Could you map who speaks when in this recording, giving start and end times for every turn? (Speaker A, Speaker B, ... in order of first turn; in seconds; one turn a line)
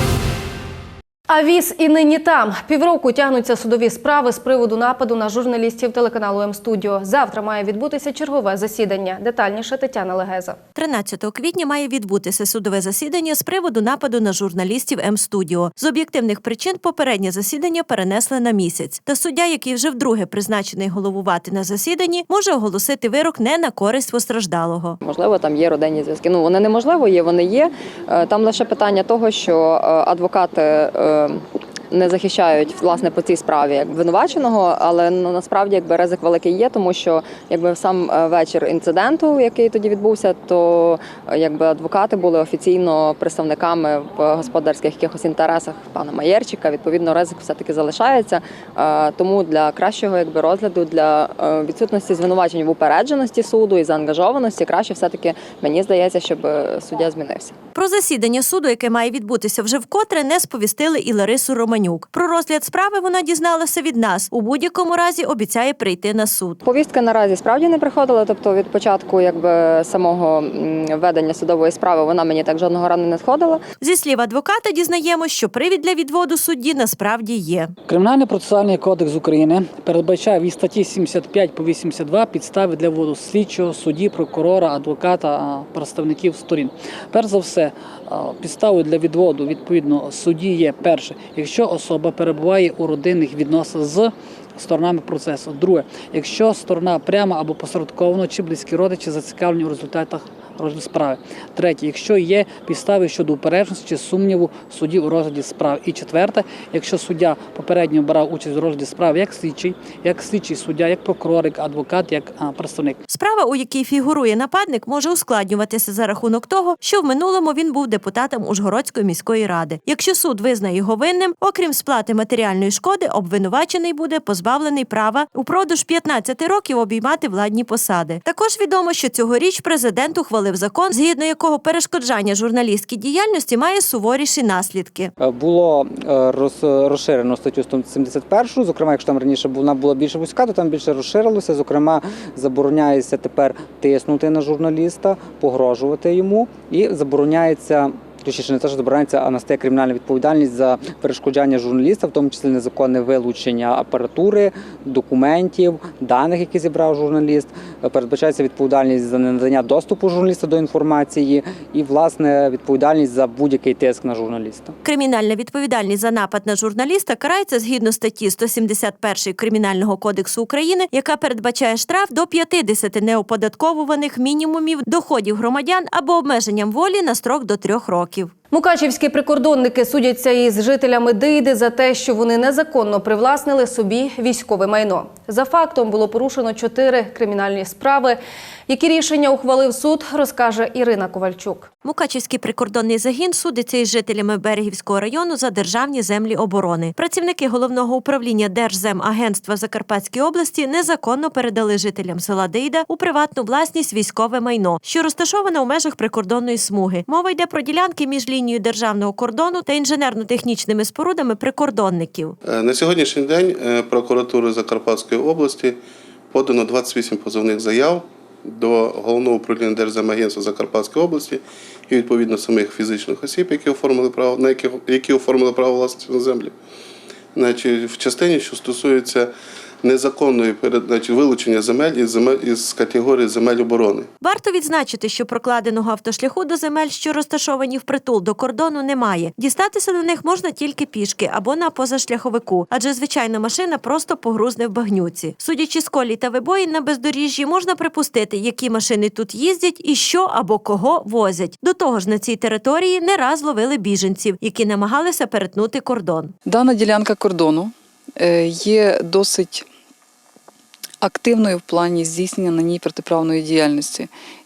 Speaker A: 1.3-10.6
Speaker B: 10.8-25.0
Speaker C: 25.0-57.5
Speaker B: 57.7-66.6
Speaker C: 66.7-73.6
Speaker B: 73.8-77.7
Speaker D: 77.9-113.0
Speaker B: 113.1-135.1
Speaker E: 135.2-164.7
Speaker B: 164.8-178.3
Speaker A: 178.5-191.7
Speaker B: 191.8-212.3
Speaker F: 212.4-215.8
Speaker F: 216.3-226.6
Speaker F: 227.3-229.3
Speaker F: 229.8-234.1
Speaker B: 234.2-256.3
Speaker G: 256.4-259.7
Speaker G: 261.0-264.1